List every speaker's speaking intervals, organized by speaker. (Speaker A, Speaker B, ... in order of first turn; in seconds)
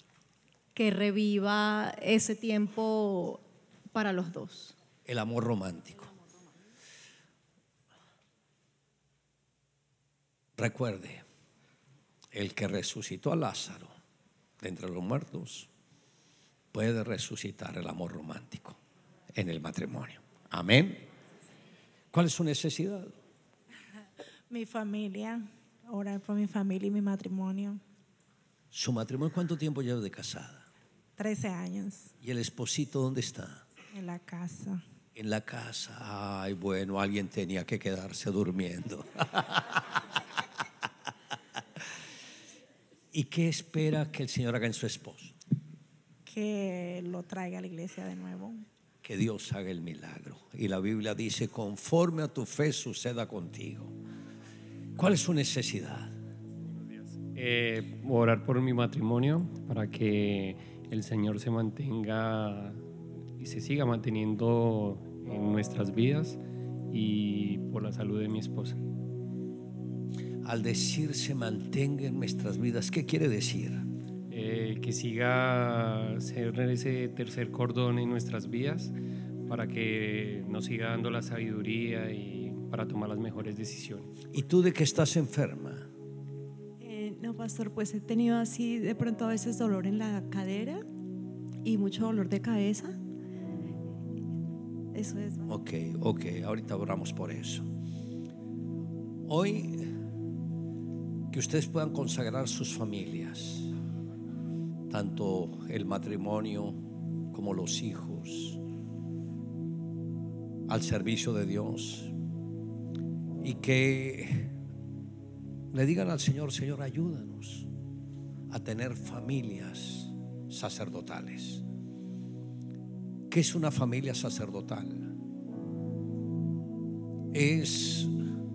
Speaker A: 0.7-4.8
Speaker B: 5.0-6.1, 10.6-11.2, 12.3-13.9, 14.6-15.7, 16.7-18.8, 19.3-21.1, 22.1-23.2, 28.7-30.6, 32.2-33.6, 35.1-39.8, 43.1-45.4, 49.0-53.9, 55.0-56.1, 70.4-73.8, 84.3-85.9, 95.5-97.7, 99.2-99.9, 101.3-103.7, 104.9-108.6, 110.7-112.1, 113.4-114.5, 115.7-117.7, 118.5-121.6, 123.3-125.1, 127.3-128.1
Speaker C: 24.5-27.8, 31.2-32.1, 33.9-34.8, 46.2-48.6
Speaker D: 56.7-62.8, 63.4-66.4, 66.9-68.8, 74.3-78.9, 79.5-84.2
Speaker E: 86.8-90.8, 91.6-93.0, 94.9-95.5